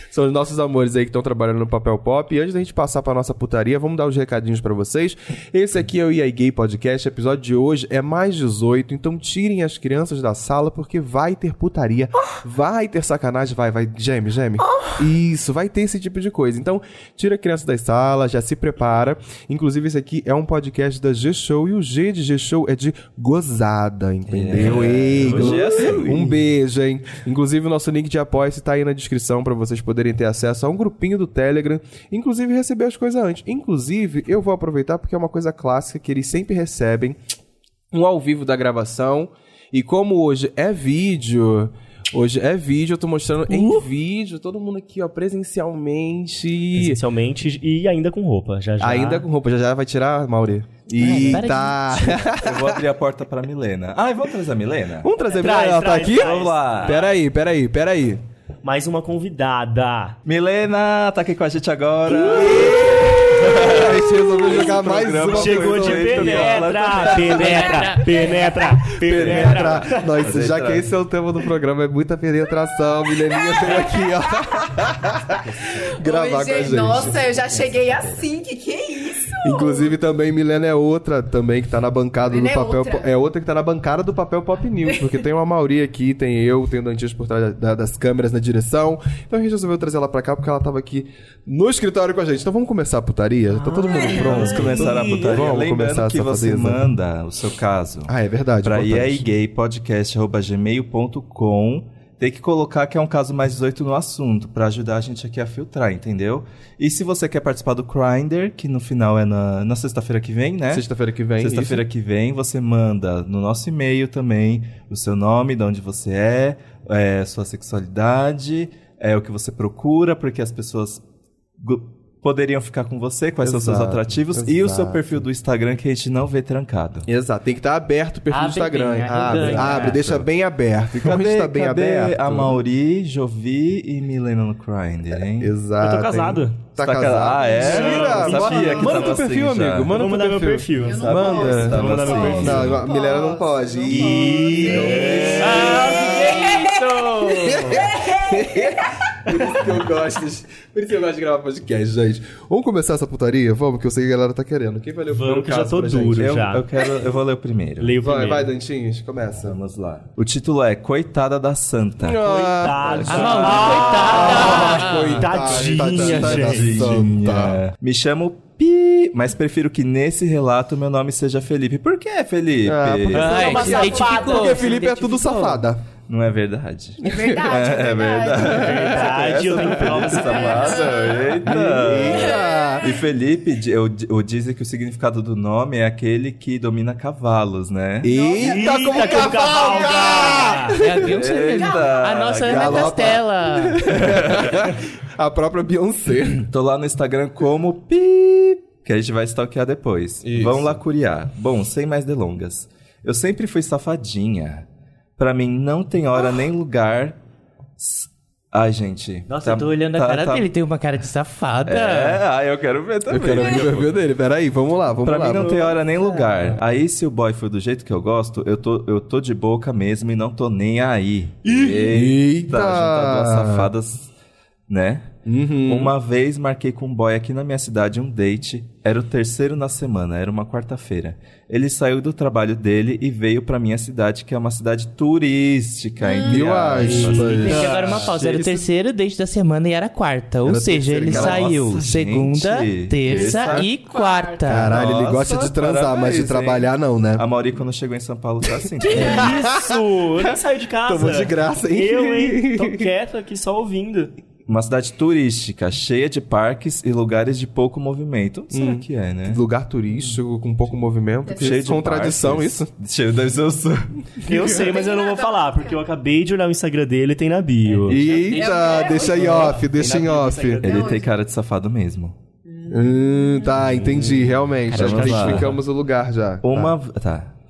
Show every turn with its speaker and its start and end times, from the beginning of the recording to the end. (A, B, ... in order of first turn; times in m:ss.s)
0:00.1-0:37.2 A
0:24.3-0:26.4 B
0:37.9-0:47.0 A
0:43.5-0:43.9 C
0:46.7-0:49.3 C
0:48.8-0:52.8 A
0:51.0-0:51.5 B
0:51.0-0:52.2 D
0:52.4-0:55.1 B
0:55.0-0:58.2 A
0:55.3-0:57.2 C
0:56.1-0:57.0 B
0:58.6-1:00.2 C
1:00.3-1:07.6 B
1:02.1-1:06.5 A
1:05.3-1:10.1 C
1:06.2-1:08.9 D
1:09.0-1:17.3 A
1:09.1-1:10.9 B
1:13.3-1:14.7 E
1:15.3-1:15.9 B
1:15.8-1:19.9 E
1:17.4-1:18.1 B
1:19.4-1:36.8 A
1:22.3-1:23.1 E
1:33.7-1:34.2 D
1:33.9-1:34.8 E
1:33.9-1:35.5 C
1:34.1-1:50.9 B
1:38.1-1:39.3 A
1:50.7-1:51.8 A
1:51.4-2:01.0 B
2:01.6-2:07.1 B
2:03.4-2:05.2 A
2:07.1-2:12.6 A
2:08.3-2:10.0 D
2:09.3-2:09.8 C
2:09.3-2:10.3 B
2:10.9-2:15.5 B
2:15.4-2:26.4 A
2:15.8-2:16.7 C
2:16.8-2:20.0 B
2:17.5-2:19.2 E
2:17.6-2:19.2 C
2:19.9-2:22.7 C
2:20.8-2:29.0 E
2:20.9-2:22.9 B
2:23.9-2:25.9 C
2:24.1-2:24.6 B
2:25.4-2:27.9 D
2:27.4-2:36.3 A
2:35.1-2:36.7 C
2:36.2-2:37.9 B
2:37.8-2:38.5 C
2:38.0-2:39.6 A
2:39.4-2:42.2 B
2:42.0-2:47.6 A
2:42.2-2:46.8 C
2:42.8-2:43.9 B
2:43.1-2:45.3 D
2:45.6-2:53.6 B
2:52.6-2:55.8 A
2:53.1-2:55.6 D
2:53.3-2:54.8 E
2:56.0-3:08.2 B
2:57.0-2:59.3 E
2:57.1-2:57.4 A
2:58.5-3:00.8 C
3:00.0-3:03.0 E
3:01.4-3:02.9 A
3:08.0-3:11.1 A
3:08.1-3:12.1 E
3:08.3-3:10.8 C
3:10.7-3:14.2 D
3:11.0-3:13.2 B
3:12.4-3:16.4 A
3:13.9-3:14.7 B
3:16.3-3:27.2 B
3:20.2-3:20.8 A
3:27.8-3:30.5 B
3:29.3-3:32.2 D
3:31.7-3:33.9 B
3:33.1-3:35.5 A
3:35.0-3:44.1 B
3:35.2-3:35.8 C
3:41.4-3:42.1 C
3:41.8-3:43.7 A
3:44.7-3:45.1 B
3:45.3-3:45.9 A
3:45.6-3:58.4 B
3:56.0-3:56.4 E
3:56.2-3:58.6 A
3:56.8-3:58.1 C
3:56.8-4:04.8 D
4:00.5-4:01.6 A
4:01.1-4:03.7 B
4:03.3-4:03.7 A
4:03.9-4:04.6 E
4:04.5-4:07.2 A
4:04.6-4:09.4 B
4:08.8-4:09.6 E
4:08.8-4:09.2 D
4:08.9-4:14.1 C
4:08.9-4:09.8 A
4:10.9-4:12.9 A
4:14.5-4:19.4 B
4:18.5-4:22.7 A
4:21.3-4:21.7 E
4:21.3-4:24.3 B
4:24.2-4:28.0 C
4:24.4-4:25.8 E
4:27.8-4:29.2 D
4:27.9-4:30.7 A
4:28.1-4:29.7 E
4:28.9-4:31.0 C
4:30.6-4:32.2 B
4:30.6-4:31.1 E
4:32.5-4:33.6 E
4:32.7-4:36.7 A
4:33.6-4:35.6 B
4:34.7-4:35.6 C
4:36.4-4:37.3 B